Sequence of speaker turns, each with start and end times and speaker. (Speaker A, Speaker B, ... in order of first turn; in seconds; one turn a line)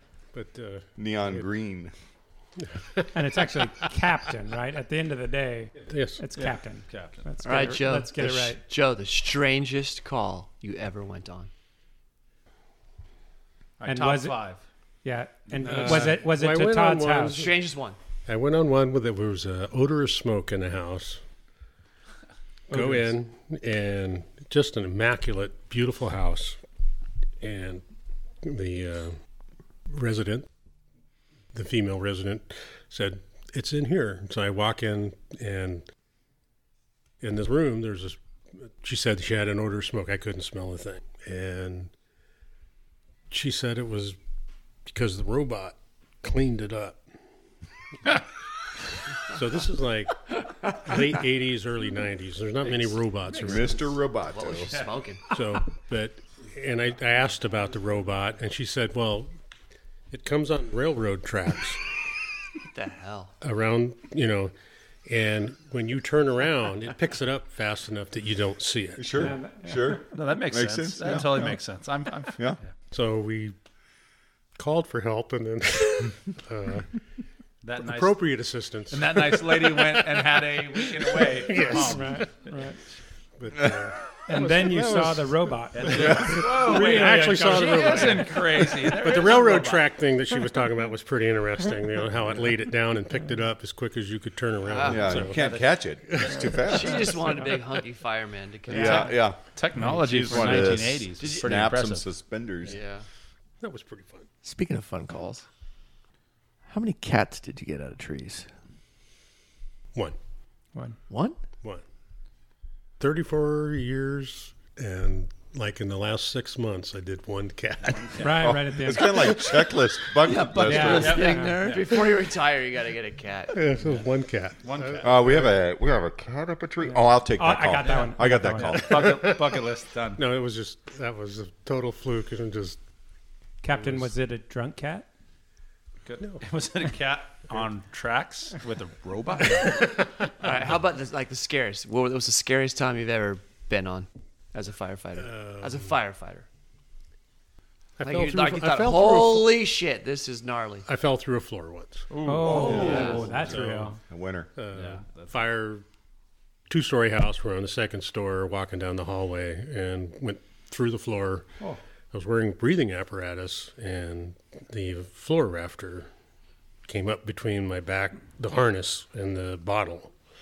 Speaker A: 0.3-1.4
Speaker B: 1.0-1.9
Speaker A: 2.6-3.2
Speaker C: 3.1-8.6
Speaker A: 5.8-6.2
Speaker D: 6.4-7.2
Speaker E: 7.4-11.5
Speaker D: 13.8-14.6
Speaker C: 13.8-14.4
Speaker C: 15.0-17.4
Speaker D: 15.6-16.1
Speaker A: 15.6-17.6
Speaker E: 17.3-18.0
Speaker A: 18.2-21.2
Speaker A: 22.7-26.6
Speaker C: 22.7-23.0
Speaker A: 27.4-27.8
Speaker A: 28.4-29.1
Speaker A: 29.9-30.5
Speaker A: 31.5-35.9
Speaker A: 37.2-41.9
Speaker A: 43.3-44.2
Speaker A: 44.9-47.0
Speaker A: 49.2-53.9
Speaker B: 53.4-54.7
Speaker E: 54.3-55.3
Speaker A: 55.3-59.3
Speaker A: 60.1-61.8
Speaker E: 62.6-63.3
Speaker A: 63.4-64.5
Speaker A: 65.0-69.3
Speaker B: 69.0-71.5
Speaker C: 69.2-70.0
Speaker D: 70.1-72.5
Speaker A: 72.9-73.5
Speaker A: 74.5-76.9
Speaker D: 77.6-78.2
Speaker A: 77.8-82.3
Speaker D: 78.9-82.5
Speaker C: 81.7-82.8
Speaker A: 83.4-95.4
Speaker C: 84.3-86.4
Speaker D: 85.7-89.9
Speaker E: 87.8-88.2
Speaker E: 94.6-95.2
Speaker B: 94.8-97.1
Speaker D: 95.3-95.7
Speaker A: 96.1-97.6
Speaker E: 96.6-99.2
Speaker B: 98.7-102.8
Speaker C: 98.7-99.1
Speaker D: 99.5-102.0
Speaker E: 101.2-101.7
Speaker E: 102.6-103.0
Speaker A: 103.6-104.3
Speaker F: 104.4-105.5
Speaker F: 106.7-108.5
Speaker F: 111.1-111.4
Speaker A: 113.0-118.5
Speaker D: 117.9-118.3
Speaker C: 118.2-119.5
Speaker B: 118.4-121.2
Speaker F: 120.2-122.0
Speaker C: 120.6-121.6
Speaker D: 120.8-121.9
Speaker E: 121.2-123.7
Speaker A: 123.5-125.5
Speaker D: 124.6-125.2
Speaker B: 125.0-129.0
Speaker C: 127.3-128.8
Speaker D: 127.8-130.2
Speaker A: 128.6-129.7
Speaker A: 130.2-132.8
Speaker C: 133.6-135.1
Speaker A: 133.7-134.1
Speaker D: 136.0-140.0
Speaker A: 139.6-140.2
Speaker E: 140.4-146.4
Speaker A: 145.2-145.9
Speaker A: 148.0-149.6
Speaker E: 148.0-150.9
Speaker A: 150.8-154.0
Speaker D: 152.1-153.2
Speaker C: 152.2-154.0
Speaker E: 152.5-153.3
Speaker B: 152.8-153.6
Speaker B: 154.1-154.5
Speaker A: 154.6-155.8
Speaker D: 154.7-155.4
Speaker A: 156.7-161.5
Speaker A: 162.1-166.1
Speaker A: 166.9-170.1